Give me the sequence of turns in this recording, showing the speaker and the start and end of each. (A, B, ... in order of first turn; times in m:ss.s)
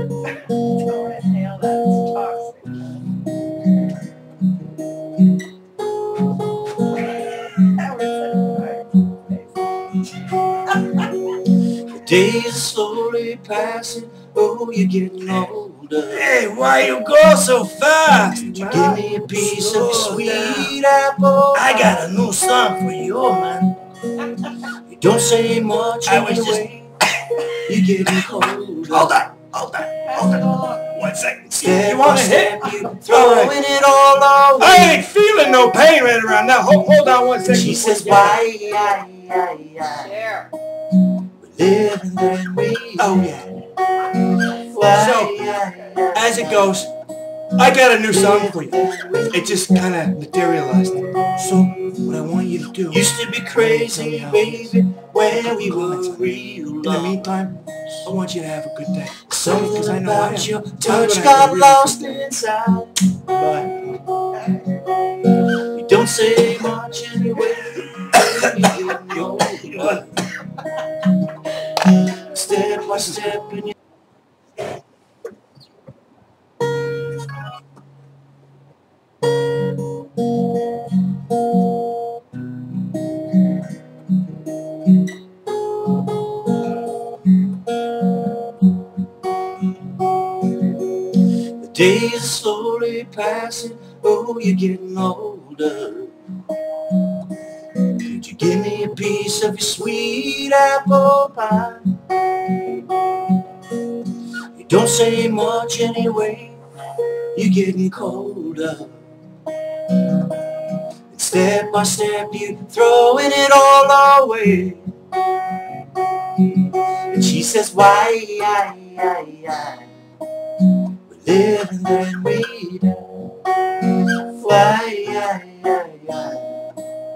0:00.4-0:02.8 A
0:06.9-0:09.5 A
0:11.6-0:16.4 B
0:16.1-0:20.7 C
0:18.5-0:22.1 B
0:21.5-0:23.6 C
0:24.4-0:26.9 B
0:26.0-0:26.6 C
0:27.5-0:29.2 B
0:28.9-0:33.6 C
0:30.0-0:30.8 A
0:31.6-0:35.0 B
0:34.6-0:38.4 C
0:37.5-0:40.1 B
0:39.9-0:40.5 A
0:41.2-0:43.3 B
0:43.0-0:43.5 C
0:44.1-0:46.8 B
0:44.8-0:45.4 C
0:46.1-0:46.9 C
0:47.6-0:54.7 C
0:48.1-0:49.9 B
0:52.9-0:57.3 B
0:55.4-1:02.0 C
0:59.3-1:02.9 B
1:03.3-1:03.8 C
1:05.2-1:10.1 B
1:09.7-1:10.0 C
1:12.0-1:13.7 B
1:31.1-1:36.2 B
1:37.9-1:41.8 B
1:44.5-1:46.6 B
1:47.3-1:49.0 B
1:51.1-1:54.8 B
1:57.1-1:59.9 B
2:01.0-2:06.5 B